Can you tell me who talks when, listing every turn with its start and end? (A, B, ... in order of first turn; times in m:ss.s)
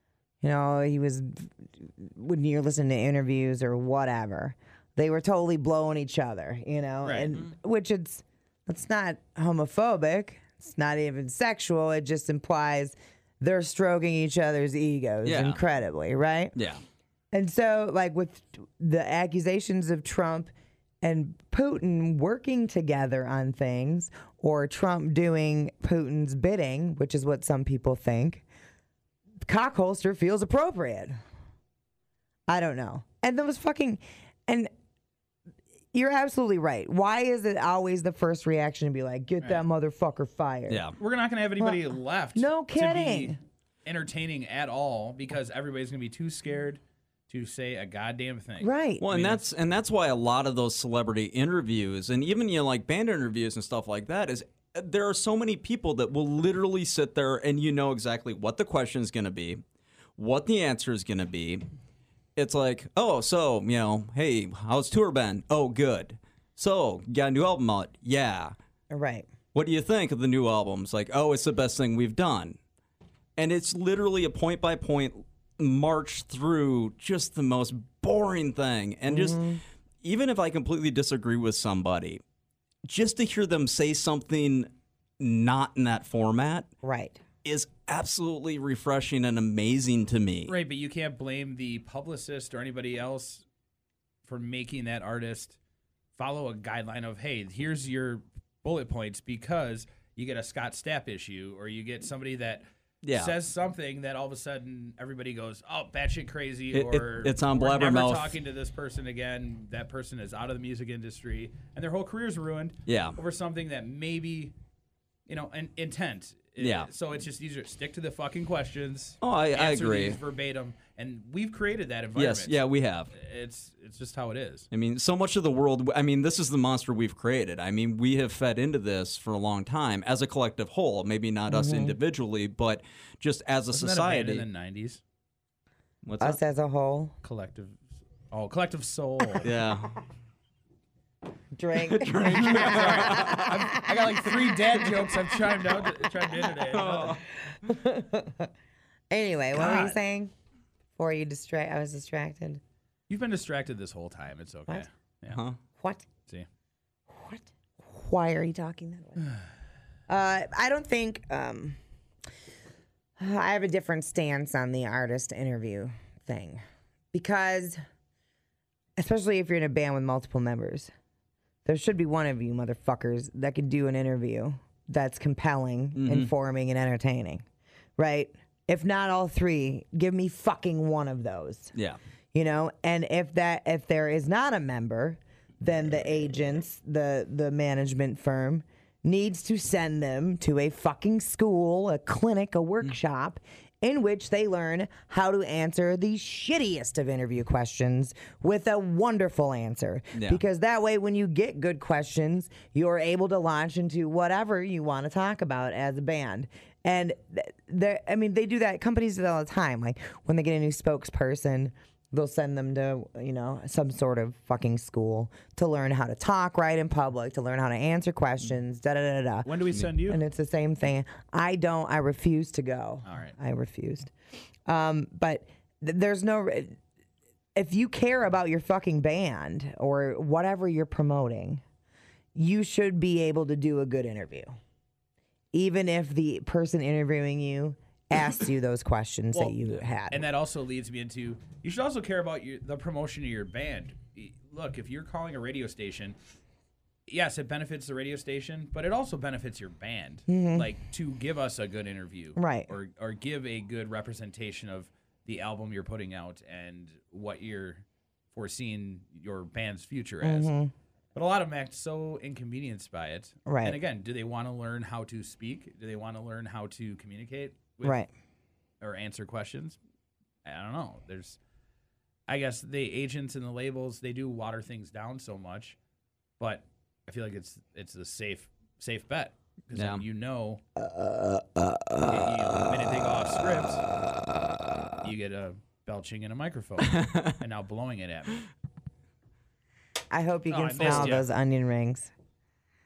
0:00.4-0:16.5 A
0:07.0-0:07.3 B
0:15.2-0:15.6 C
0:16.6-0:16.8 C
0:17.3-0:20.5 A
0:21.0-0:28.4 A
0:29.4-0:31.2 A
0:32.5-0:34.7 A
0:35.9-0:40.8 A
0:40.7-0:41.0 C
0:41.0-0:49.4 B
0:41.6-0:43.4 A
0:48.6-0:49.0 A
0:49.0-0:59.6 C
1:00.2-1:01.6 C
1:02.4-1:08.5 C
1:08.9-1:09.3 A
1:09.5-1:12.6 C
1:13.4-1:19.5 C
1:19.1-1:19.6 A
1:20.0-1:22.2 C
1:22.9-1:26.7 C
1:26.8-1:27.2 A
1:27.4-1:30.6 C
1:30.5-1:33.4 B
1:34.3-1:35.6 B
1:36.2-1:54.6 B
1:43.0-1:43.3 C
1:46.7-1:48.4 C
1:52.9-1:53.2 C
1:55.3-2:02.6 B
1:56.6-1:56.9 C
1:59.2-2:00.2 C
2:02.2-2:03.1 C
2:03.1-2:04.7 B
2:04.7-2:14.4 C
2:11.5-2:12.0 A
2:13.7-2:15.0 B
2:16.0-2:16.4 C
2:16.2-2:17.1 A
2:17.2-2:19.5 B
2:19.4-2:20.0 C
2:21.5-2:25.1 A
2:21.7-2:23.7 C
2:22.3-2:27.2 B
2:26.7-2:27.2 C
2:27.4-2:28.5 A
2:29.1-2:30.3 A
2:29.6-2:30.0 B
2:31.0-2:32.6 A
2:33.1-2:35.4 B
2:35.3-2:35.6 C
2:35.8-2:36.1 A
2:37.1-2:39.3 A
2:40.1-2:41.8 A
2:43.2-2:46.6 A
2:47.1-2:47.8 A
2:49.0-2:50.9 A
2:51.6-2:57.4 A
2:56.0-2:56.3 C
2:58.0-3:01.7 A
3:02.3-3:44.1 A
3:20.1-3:20.4 C
3:39.4-3:40.2 B
3:43.0-3:43.4 B
3:44.6-3:46.8 A
3:47.6-3:51.6 A
3:52.4-3:54.5 A
3:55.5-4:00.2 A
3:59.3-4:06.2 B
4:07.1-4:20.5 B
4:10.3-4:10.7 A
4:12.4-4:12.7 A
4:20.2-4:20.7 A
4:21.1-4:28.0 B
4:23.4-4:23.8 A
4:27.8-4:28.1 A
4:28.8-4:29.8 B
4:30.4-4:31.4 B
4:32.3-4:35.8 B
4:36.4-4:40.6 B
4:39.7-4:40.0 C
4:42.0-4:43.9 B
4:45.0-4:48.5 B
4:47.0-4:47.3 C
4:50.1-4:52.1 A
4:50.5-4:51.3 B